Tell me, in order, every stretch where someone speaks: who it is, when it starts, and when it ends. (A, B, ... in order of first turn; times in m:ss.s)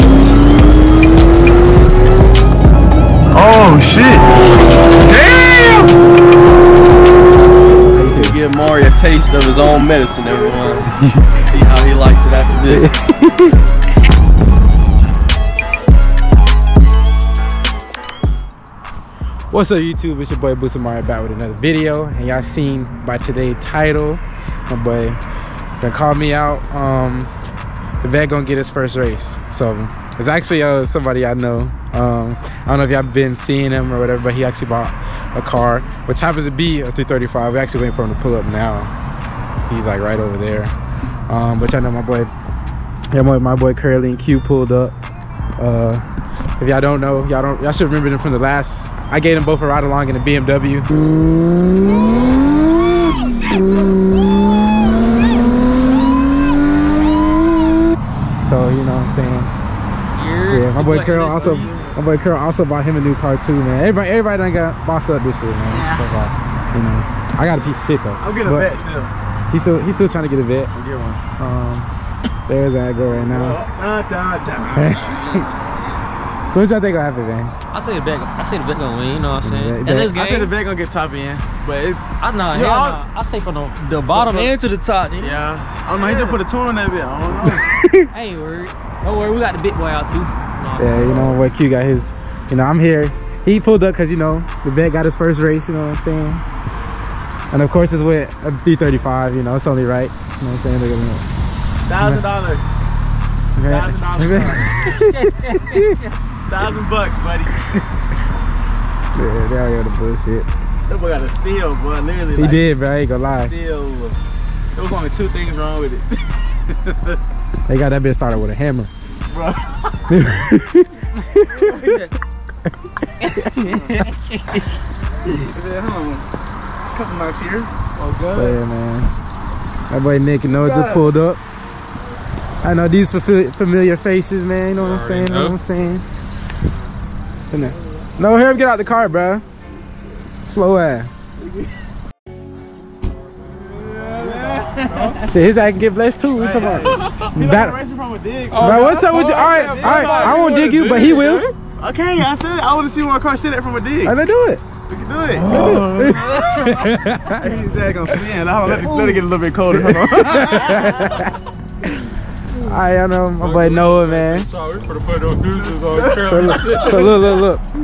0:03.3-0:04.3 A
0:05.0-0:05.9 A
0:07.9-0:08.4 B
0:08.0-0:12.9 C
0:12.7-0:13.6 B
0:19.5-0:25.2 B
0:25.8-0:27.3 B
0:28.0-0:38.9 B
0:39.7-0:40.7 B
0:41.3-0:42.3 B
0:43.1-0:44.9 B
0:45.6-0:46.0 B
0:46.6-0:50.9 B
0:58.4-0:59.5 B
1:00.1-1:02.0 D
1:00.5-1:08.7 B
1:01.4-1:02.0 A
1:05.7-1:06.0 A
1:08.2-1:09.1 A
1:09.5-1:10.7 B
1:10.7-1:11.2 A
1:11.4-1:11.9 B
1:12.5-1:13.6 B
1:13.0-1:15.5 A
1:14.7-1:15.4 B
1:16.5-1:17.5 B
1:17.7-1:20.5 D
1:19.4-1:20.1 B
1:20.1-1:23.0 A
1:22.2-1:25.4 D
1:24.1-1:24.5 A
1:25.1-1:27.6 A
1:26.0-1:26.4 D
1:27.6-1:28.1 B
1:28.1-1:31.3 D
1:30.8-1:36.4 B
1:37.5-1:41.2 B
1:41.8-1:42.6 A
1:43.6-1:46.0 B
1:43.6-1:44.9 A
1:45.0-1:46.0 D
1:46.5-1:47.7 A
1:49.1-1:50.5 B
1:50.9-1:52.7 A
1:52.3-1:53.5 B
1:53.3-1:54.2 A
1:54.7-1:57.2 A
1:57.7-1:58.9 B
1:59.3-1:59.9 A
2:00.1-2:02.0 B
2:01.6-2:02.1 D
2:03.3-2:04.0 B
2:03.3-2:04.6 D
2:03.6-2:04.0 A
2:05.2-2:06.2 A
2:06.9-2:07.7 A
2:08.0-2:08.6 D
2:08.3-2:09.1 B
2:09.9-2:11.4 B
2:10.5-2:10.9 A
2:12.6-2:16.0 B
2:14.8-2:15.6 E
2:17.5-2:19.4 B
2:20.4-2:21.1 B
2:23.7-2:25.2 A
2:25.2-2:27.8 B
2:26.4-2:30.6 A
2:26.9-2:27.2 E
2:28.5-2:31.5 E
2:28.5-2:31.4 B
2:31.8-2:34.2 A
2:34.0-2:34.6 B
2:34.9-2:41.0 A
2:35.3-2:39.2 B
2:39.7-2:42.0 B
2:42.6-2:44.5 B
2:43.4-2:47.2 E
2:45.5-2:47.4 A
2:46.2-2:47.6 B